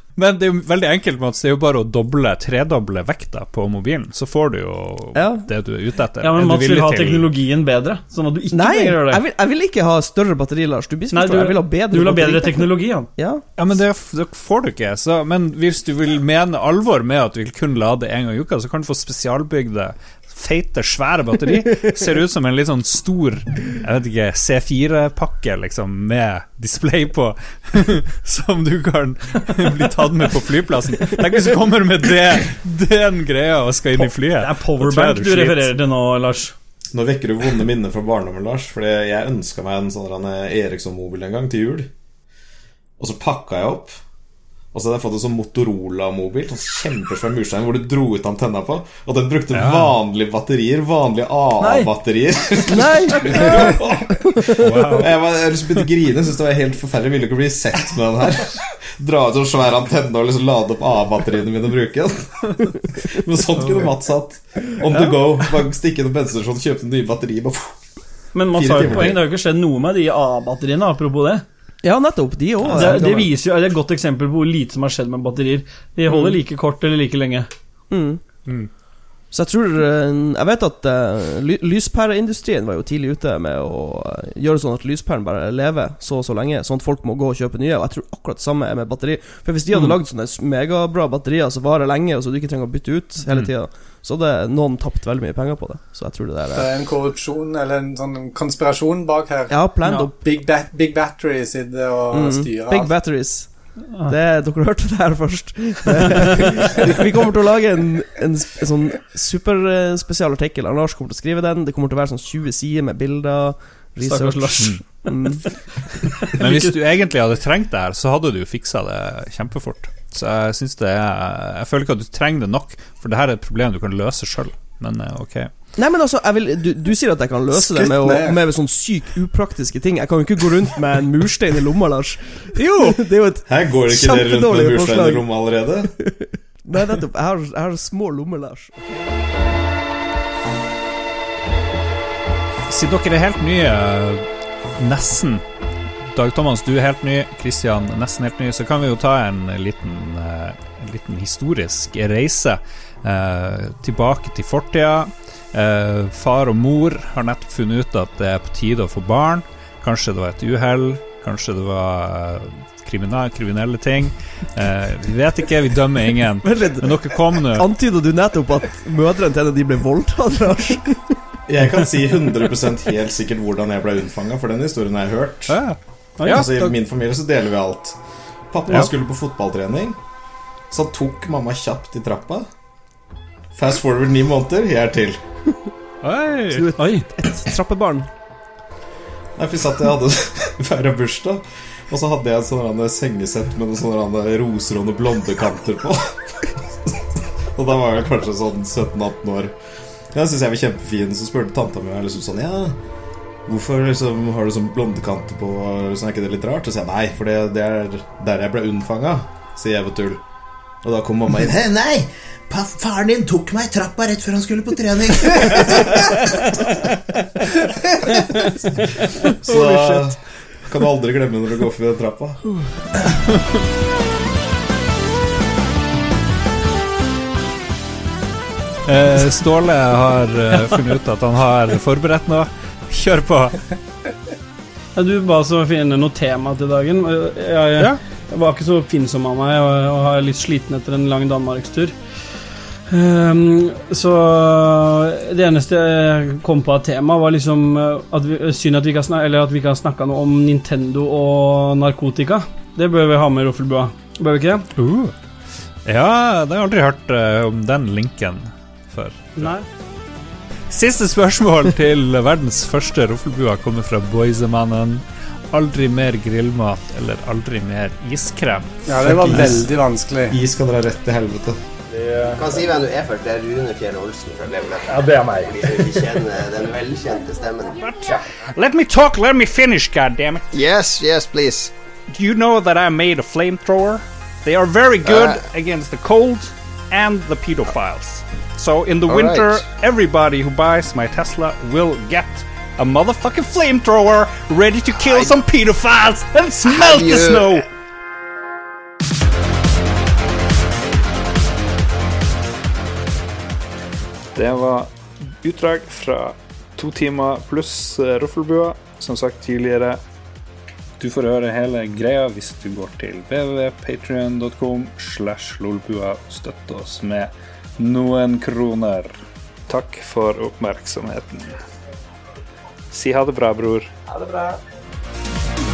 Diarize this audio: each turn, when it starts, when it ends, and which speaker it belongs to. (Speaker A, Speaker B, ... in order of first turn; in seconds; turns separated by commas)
Speaker A: 0.2-7.3, Speaker B: 5.2-5.5, Speaker C: 6.2-9.2, Speaker B: 8.5-13.4, Speaker C: 11.1-13.1, Speaker A: 13.6-35.7, Speaker C: 34.0-36.5, Speaker D: 36.9-41.9, Speaker D: 43.0-44.0, Speaker D: 44.7-67.8, Speaker A: 49.5-50.0, Speaker C: 51.6-51.9, Speaker B: 52.7-54.5, Speaker A: 54.6-55.1, Speaker B: 64.9-65.3, Speaker C: 68.3-71.4, Speaker D: 68.4-69.2, Speaker B: 71.8-73.3, Speaker A: 72.6-72.9, Speaker C: 72.7-77.5, Speaker B: 76.1-76.4, Speaker B: 77.9-78.2, Speaker B: 79.3-96.8, Speaker A: 93.2-93.5, Speaker E: 96.5-103.0, Speaker B: 99.5-100.1, Speaker B: 102.1-115.5, Speaker C: 114.0-115.2, Speaker C: 116.2-116.7, Speaker A: 116.4-125.5, Speaker B: 125.8-139.0, Speaker E: 127.5-128.4, Speaker D: 133.5-135.9, Speaker A: 142.7-144.2, Speaker A: 144.8-145.4, Speaker A: 146.1-167.7, Speaker B: 166.4-171.2, Speaker D: 171.5-175.7, Speaker A: 175.5-176.5, Speaker C: 176.2-176.8, Speaker D: 176.2-178.0, Speaker D: 178.5-180.0, Speaker D: 180.7-182.5, Speaker D: 183.5-185.2, Speaker A: 186.0-186.7, Speaker B: 186.5-188.1, Speaker C: 186.8-187.1, Speaker D: 189.4-197.0, Speaker D: 197.5-199.5, Speaker D: 200.1-202.8, Speaker D: 203.5-210.2, Speaker D: 210.8-216.3, Speaker D: 219.3-222.4, Speaker A: 228.9-233.6, Speaker C: 234.9-241.9, Speaker C: 242.9-254.7, Speaker A: 254.8-255.1, Speaker A: 255.8-259.6, Speaker C: 259.4-259.6, Speaker A: 260.7-268.7, Speaker E: 268.9-270.4, Speaker D: 269.0-269.7, Speaker D: 270.3-271.6, Speaker F: 272.3-277.8, Speaker A: 277.8-280.5, Speaker F: 280.5-281.7, Speaker A: 282.1-297.7, Speaker F: 285.1-285.4, Speaker F: 289.1-289.7, Speaker F: 295.0-295.4, Speaker F: 296.6-297.6, Speaker A: 304.4-310.0, Speaker A: 311.0-319.2, Speaker A: 319.7-321.6, Speaker A: 322.9-323.9